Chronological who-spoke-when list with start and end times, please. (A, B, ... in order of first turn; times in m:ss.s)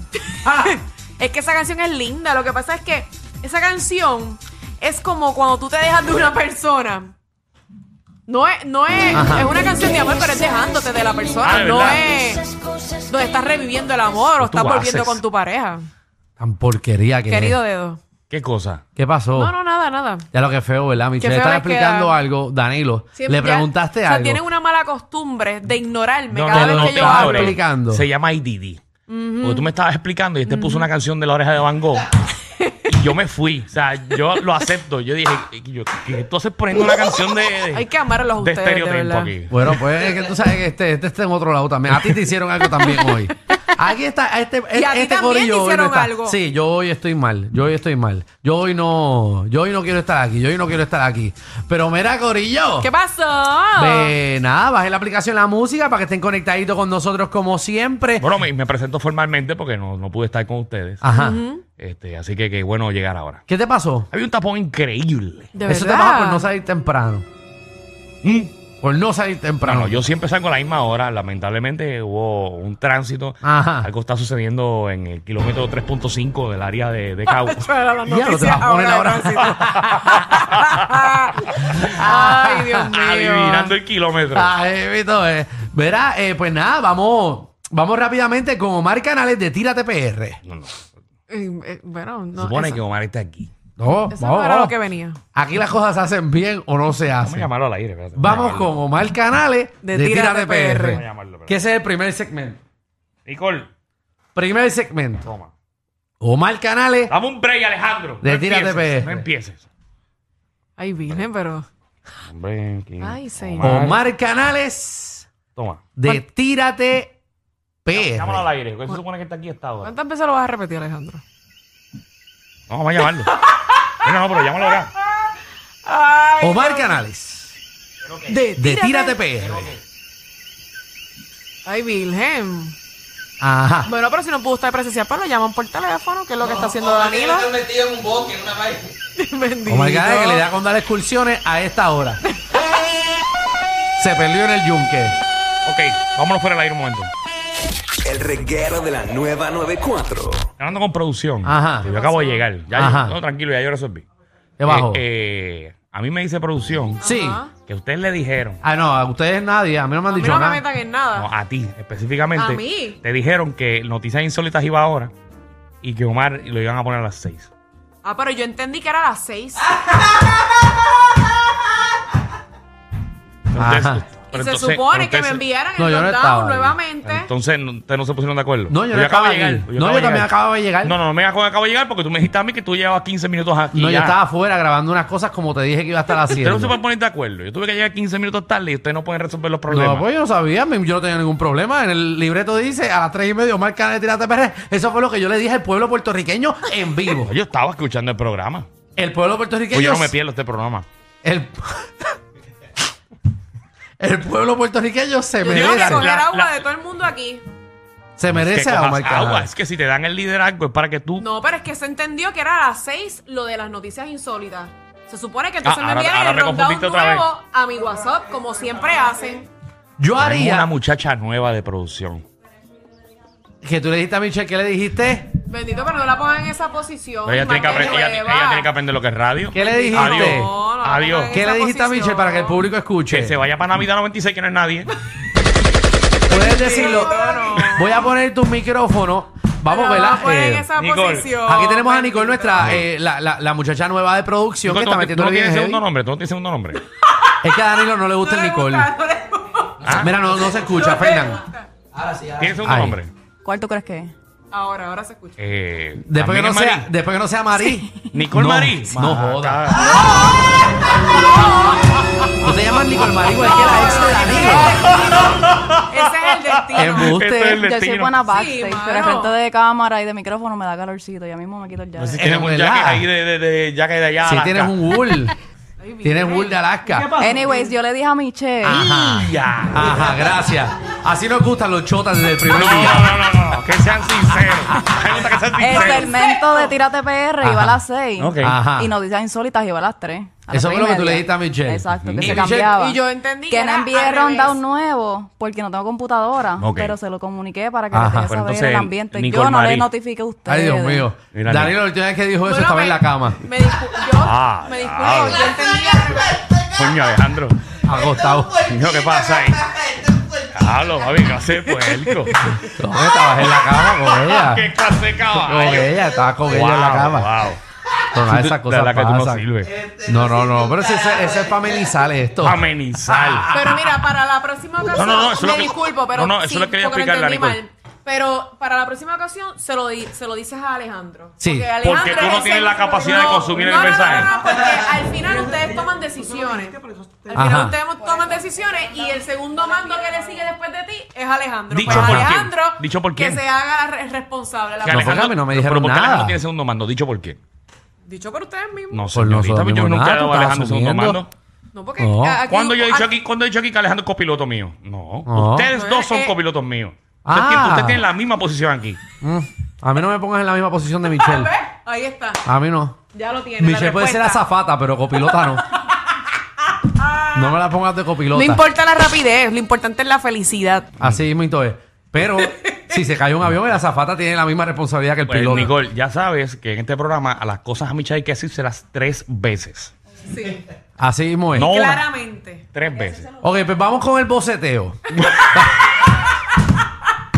0:00.3-0:07.1 A
0:08.3-0:12.5 A
0:09.1-0:09.5 B
0:11.4-0:12.0 C
0:13.0-0:15.8 A
0:14.4-0:15.2 C
0:16.4-0:17.6 B
0:17.3-0:18.0 A
0:18.3-0:18.8 C
0:19.0-0:19.6 B
0:19.4-0:20.2 A
0:20.3-0:24.4 B
0:21.2-0:22.1 A
0:23.1-0:27.6 A
0:26.3-0:28.8 C
0:26.5-0:28.0 B
0:29.1-0:29.7 A
0:29.4-0:32.1 C
0:30.4-0:30.8 A
0:32.4-0:32.9 A
0:32.9-0:37.9 C
0:37.7-0:39.3 A
0:38.4-0:39.7 C
0:39.5-0:52.9 B
0:44.7-0:46.4 A
0:52.8-0:54.1 A
0:53.8-0:58.3 B
0:58.2-1:01.0 C
1:01.0-1:01.4 B
1:01.1-1:01.6 A
1:01.8-1:03.4 C
1:03.5-1:04.1 B
1:04.1-1:05.5 C
1:05.5-1:06.5 A
1:05.6-1:07.2 B
1:08.2-1:08.5 C
1:08.8-1:10.0 B
1:09.6-1:17.7 C
1:13.4-1:13.9 B
1:17.3-1:23.7 A
1:18.0-1:20.2 B
1:21.8-1:22.9 B
1:22.9-1:24.5 C
1:24.3-1:30.4 B
1:30.4-1:30.8 C
1:31.3-1:32.8 A
1:32.4-1:33.5 C
1:33.8-1:34.7 B
1:34.1-1:35.2 A
1:35.3-1:37.5 B
1:37.2-1:38.7 C
1:38.2-1:42.6 B
1:39.8-1:41.0 A
1:40.9-1:41.6 C
1:43.2-1:43.7 C
1:44.3-1:45.2 B
1:45.2-1:45.5 C
1:46.2-1:47.1 B
1:47.1-1:49.7 C
1:48.2-1:49.2 B
1:50.8-1:51.7 A
1:52.3-1:54.0 C
1:53.0-1:53.9 A
1:53.6-1:55.3 B
1:55.5-1:55.8 C
1:56.0-1:57.2 B
1:57.8-1:58.5 B
1:57.9-1:59.9 C
1:59.8-2:01.2 A
2:02.7-2:03.3 C
2:03.6-2:03.9 A
2:04.0-2:04.9 C
2:05.8-2:07.0 A
2:06.4-2:07.6 B
2:08.0-2:08.3 C
2:08.3-2:09.2 A
2:08.6-2:09.7 B
2:09.5-2:09.8 C
2:11.6-2:12.7 A
2:13.4-2:13.9 B
2:13.8-2:17.6 A
2:19.1-2:20.4 A
2:19.7-2:22.2 B
2:24.0-2:25.2 B
2:25.6-2:27.1 C
2:28.0-2:30.5 D
2:30.6-2:34.0 C
2:31.4-2:31.9 B
2:31.8-2:32.4 A
2:32.7-2:33.2 B
2:34.6-2:35.0 B
2:34.7-2:37.0 C
2:37.0-2:37.5 A
2:37.0-2:37.4 B
2:37.6-2:38.6 C
2:38.6-2:40.6 B
2:40.1-2:41.3 A
2:41.1-2:45.1 C
2:42.4-2:43.0 A
2:45.8-2:47.5 C
2:48.0-2:49.7 A
2:53.5-2:54.0 B
2:53.5-2:55.4 C
2:54.3-2:57.3 A
2:55.8-2:56.8 B
2:57.0-3:04.2 C
2:58.7-3:00.9 B
3:03.7-3:06.8 B
3:06.3-3:10.0 C
3:09.7-3:17.3 B
3:17.1-3:18.7 C
3:19.0-3:20.1 B
3:19.7-3:20.8 C
3:21.2-3:21.9 B
3:24.0-3:26.2 B
3:25.4-3:27.4 A
3:25.5-3:26.6 C
3:28.2-3:29.5 B
3:28.3-3:31.2 C
3:31.2-3:39.5 A
3:35.6-3:37.3 C
3:40.0-3:40.7 B
3:40.2-3:42.2 C
3:43.6-3:45.3 B
3:45.5-3:48.7 A
3:47.2-3:51.4 C
3:49.5-3:50.5 B
3:49.6-3:52.6 A
3:51.3-3:53.4 B
3:53.1-3:54.9 C
3:56.3-3:58.0 A
3:56.3-4:00.7 B
3:59.7-4:02.8 A
4:00.8-4:01.3 C
4:01.4-4:05.8 B
4:04.7-4:06.8 C
4:07.4-4:08.9 B
4:08.1-4:11.7 A
4:09.8-4:10.2 C
4:09.9-4:11.4 B
4:12.2-4:13.1 C
4:12.6-4:13.0 B
4:13.4-4:14.1 E
4:14.5-4:15.4 A
4:15.4-4:16.9 C
4:16.0-4:19.9 B
4:18.1-4:20.0 C
4:21.1-4:21.8 A
4:22.4-4:24.8 B
4:23.2-4:25.2 A
4:25.0-4:25.8 C
4:25.9-4:27.1 A
4:26.7-4:28.2 C
4:26.7-4:27.6 B
4:27.6-4:32.2 E
4:28.2-4:29.3 A
4:32.0-4:34.8 C
4:32.2-4:33.1 B
4:34.2-4:35.3 B
4:35.8-4:36.6 A
4:36.0-4:37.1 B
4:36.9-4:37.3 C
4:37.2-4:38.9 E
4:37.4-4:37.7 A
4:38.7-4:40.4 C
4:38.7-4:43.1 B
4:42.5-4:46.2 C
4:45.6-5:01.1 E
4:45.9-4:46.7 A
4:47.4-4:47.8 B
4:48.2-4:48.6 C
4:48.4-4:48.9 B
4:50.5-4:52.7 B
4:52.0-4:52.4 C
4:52.7-4:54.6 A
4:56.6-4:57.0 C
4:57.9-4:58.3 B
4:58.2-4:59.9 C
5:00.4-5:03.4 B
5:01.3-5:01.8 C
5:02.4-5:06.3 A
5:04.2-5:05.5 C
5:06.3-5:07.6 C
5:07.8-5:08.7 B
5:08.6-5:12.6 C
5:11.8-5:12.5 A
5:12.6-5:14.7 B
5:13.4-5:17.6 C
5:15.3-5:17.3 B
5:18.1-5:23.7 B
5:18.2-5:19.8 C
5:22.4-5:23.5 C
5:23.5-5:45.2 A
5:24.9-5:27.6 C
5:31.4-5:31.7 B
5:31.8-5:34.3 C
5:37.3-5:37.8 B
5:38.2-5:38.6 E
5:41.7-5:43.4 C
5:41.8-5:42.3 B
5:44.8-5:47.4 C
5:44.9-5:46.4 B
5:48.0-5:49.0 A
5:48.9-5:51.3 C
5:49.1-5:51.2 B
5:51.7-5:53.2 A
5:52.0-5:52.4 B
5:52.4-5:59.0 C
5:55.3-5:55.7 B
5:55.7-5:56.3 A
5:57.2-5:58.1 B
5:59.2-6:01.5 B
6:01.1-6:02.4 A
6:02.4-6:03.0 B
6:03.1-6:04.4 A
6:03.6-6:05.6 B
6:06.8-6:07.5 A
6:07.3-6:08.7 B
6:08.3-6:10.9 A
6:11.0-6:15.7 B
6:12.2-6:12.9 A
6:15.2-6:19.9 C
6:20.3-6:20.6 A
6:21.0-6:21.7 B
6:21.5-6:22.0 C
6:21.6-6:22.6 A
6:22.7-6:23.3 C
6:23.4-6:25.9 B